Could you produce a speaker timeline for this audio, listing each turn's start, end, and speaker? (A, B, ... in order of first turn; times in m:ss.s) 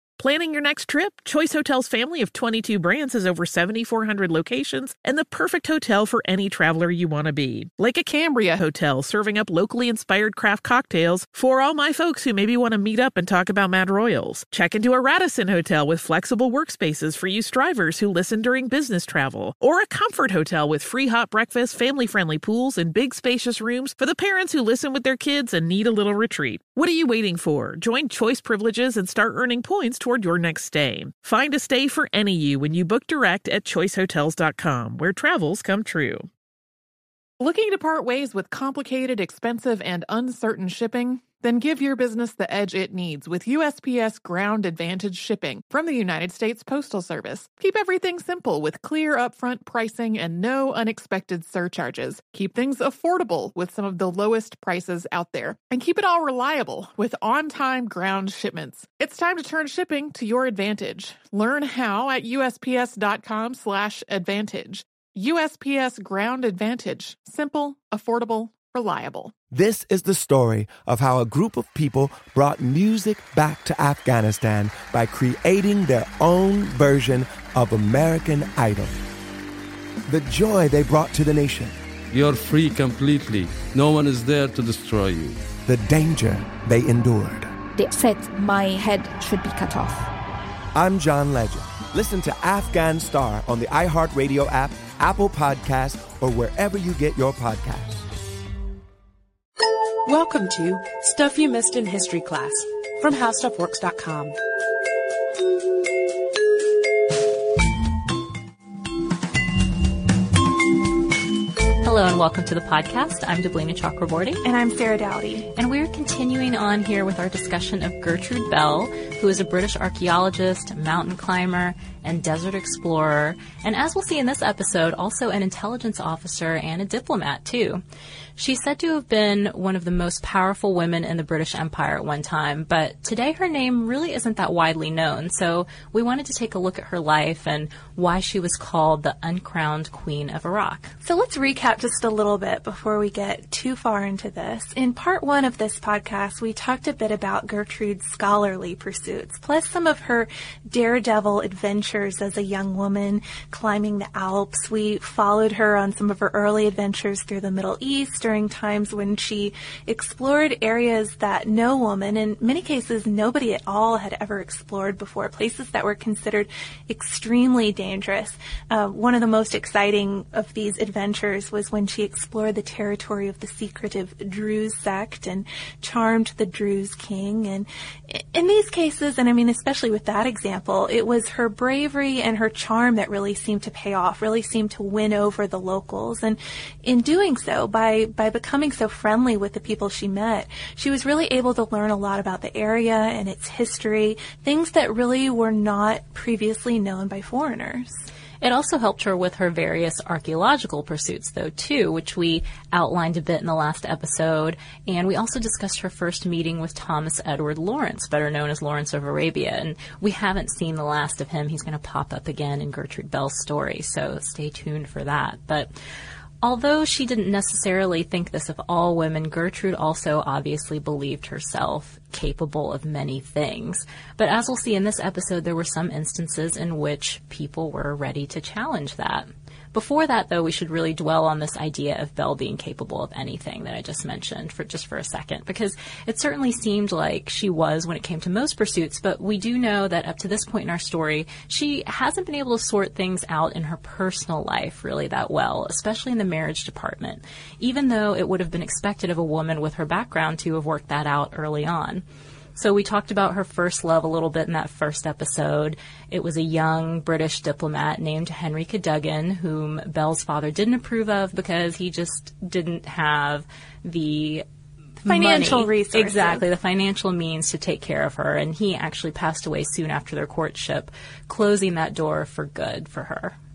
0:00.2-0:36.3 A
0:37.4-1:09.3 B
1:09.5-1:19.0 C
1:20.1-1:21.8 C
1:22.1-1:25.4 D
1:25.6-1:27.5 C
1:27.8-1:30.1 E
1:30.8-1:38.1 C
1:40.0-1:44.4 F
1:51.8-1:54.4 G
1:54.4-1:55.5 H
1:55.6-2:07.8 G
2:08.4-2:20.9 G
2:21.0-3:18.0 H
3:18.4-3:35.7 G
3:36.4-4:12.0 G
4:12.6-4:24.4 G
4:25.0-4:33.4 G
4:25.0-4:26.4 H